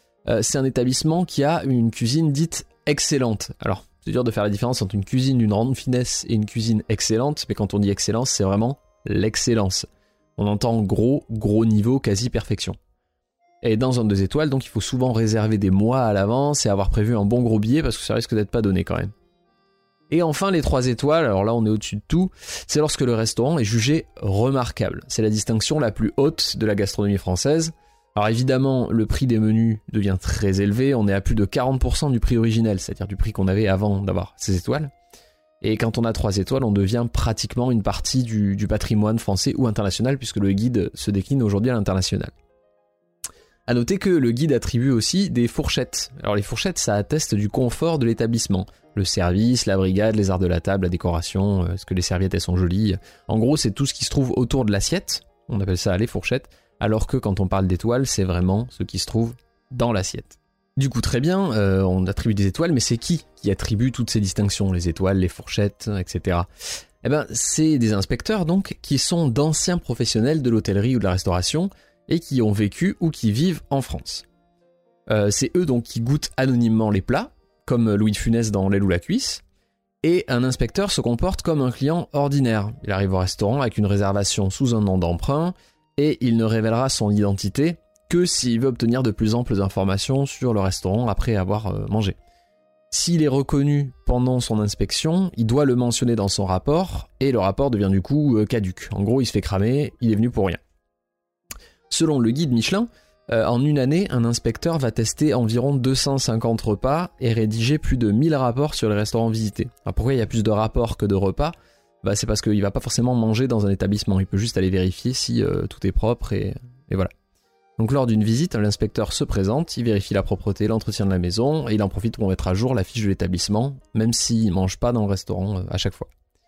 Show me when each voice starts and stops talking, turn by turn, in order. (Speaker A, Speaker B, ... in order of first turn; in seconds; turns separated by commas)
Speaker A: 0.3-12.8, Speaker A: 13.6-19.1, Speaker A: 20.1-34.9, Speaker A: 35.6-42.3, Speaker A: 43.7-66.5, Speaker A: 67.0-74.2, Speaker A: 75.1-79.4, Speaker A: 80.0-92.2, Speaker A: 92.9-100.6, Speaker A: 101.9-117.1, Speaker A: 117.8-126.1